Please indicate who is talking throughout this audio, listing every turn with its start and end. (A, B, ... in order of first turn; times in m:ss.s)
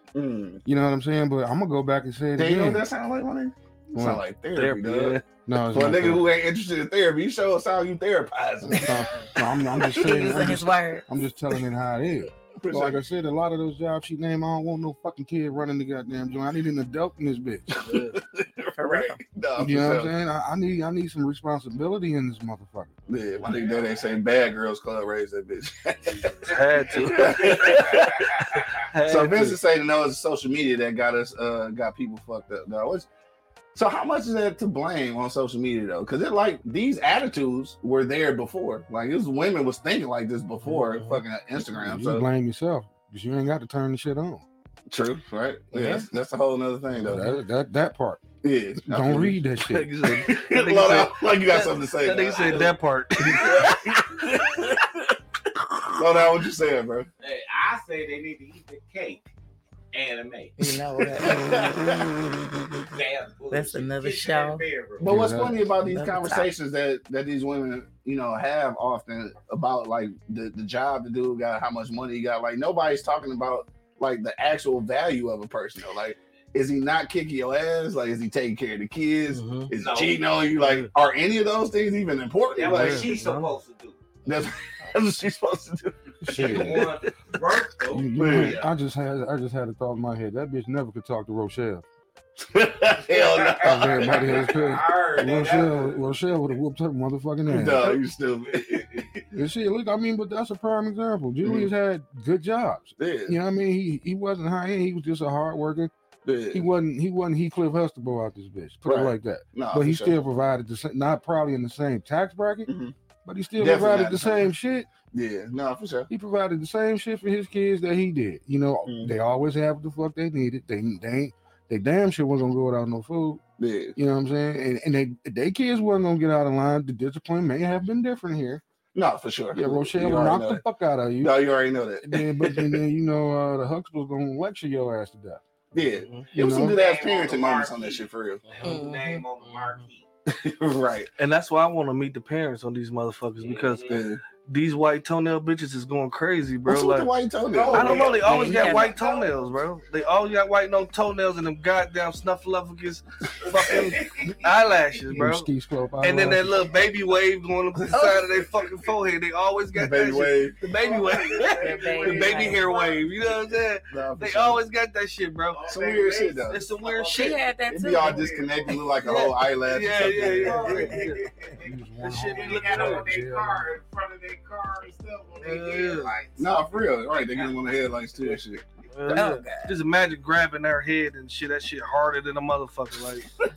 0:00.1-0:00.6 A
0:00.6-0:02.8 B
0:02.4-0:05.2 A
0:04.0-0:04.2 B
0:04.5-0:05.3 C
0:05.5-0:06.2 B
0:05.7-0:09.1 A
0:08.6-0:17.9 B
0:10.0-0:11.1 D
0:12.6-0:13.0 A
0:17.9-0:18.2 C
0:17.9-0:20.1 A
0:18.8-0:19.2 D
0:19.6-0:23.0 B
0:23.1-0:33.1 A
0:23.5-0:23.9 E
0:26.4-0:27.7 C
0:27.4-0:28.1 E
0:28.9-0:29.6 C
0:33.7-0:42.3 A
0:40.7-0:41.2 C
0:41.7-0:44.4 B
0:44.9-0:47.2 A
0:45.8-0:46.0 C
0:47.0-0:48.2 B
0:48.4-0:49.4 A
0:48.8-0:50.0 B
0:49.6-0:54.8 C
0:50.1-0:52.6 A
0:52.1-0:52.8 E
0:53.2-0:54.6 A
0:56.0-0:57.1 A
0:57.2-0:59.3 E
0:59.9-1:00.6 E
1:00.6-1:02.1 D
1:01.2-1:02.1 A
1:02.9-1:05.1 E
1:03.5-1:04.6 D
1:05.0-1:23.1 A
1:05.0-1:05.7 B
1:05.8-1:06.5 D
1:19.3-1:19.7 C
1:19.8-1:20.2 E
1:20.6-1:20.9 C
1:22.5-1:24.0 E
1:22.6-1:23.5 C
1:24.3-1:26.7 A
1:26.2-1:26.9 B
1:26.3-1:28.7 E
1:27.9-1:31.8 B
1:28.2-1:28.6 A
1:32.5-1:34.5 A
1:33.1-1:36.5 E
1:33.6-1:37.9 B
1:37.5-1:39.2 A
1:38.5-1:39.1 E
1:39.3-1:45.9 B
1:41.4-1:41.7 A
1:43.0-1:43.4 A
1:46.2-1:46.7 A
1:46.5-1:52.7 B
1:48.9-1:50.2 A
1:52.7-1:52.9 A
1:53.2-1:54.9 B
1:53.6-1:54.5 A
1:55.1-1:56.1 A
1:56.1-2:03.4 B
1:58.8-1:59.1 A
2:03.6-2:04.0 A
2:04.0-2:08.6 B
2:09.0-2:10.6 A
2:09.6-2:11.4 B
2:11.2-2:12.8 A
2:12.0-2:15.4 B
2:15.7-2:18.4 A
2:16.0-2:16.3 C
2:16.3-2:16.8 B
2:16.4-2:20.1 E
2:18.6-2:19.2 D
2:20.3-2:21.1 A
2:21.2-2:27.1 C
2:23.4-2:24.0 E
2:23.9-2:24.2 A
2:26.7-2:28.1 A
2:27.5-2:29.7 E
2:27.7-2:45.6 C
2:28.2-2:29.0 D
2:33.6-2:34.8 E
2:35.1-2:36.7 B
2:36.5-2:37.1 E
2:38.4-2:38.8 E
2:39.7-2:40.6 A
2:40.7-2:43.3 E
2:41.4-2:42.6 D
2:43.9-2:44.6 A
2:45.5-2:48.9 E
2:45.7-2:46.6 A
2:46.5-2:47.4 C
2:47.1-2:48.3 D
2:47.7-2:50.9 A
2:49.0-2:51.3 C
2:50.1-2:57.5 E
2:50.7-2:51.2 D
2:51.6-2:53.7 B
2:52.0-2:53.1 C
2:55.4-2:56.2 C
2:56.4-2:58.6 A
2:58.9-3:03.3 C
2:59.1-2:59.7 D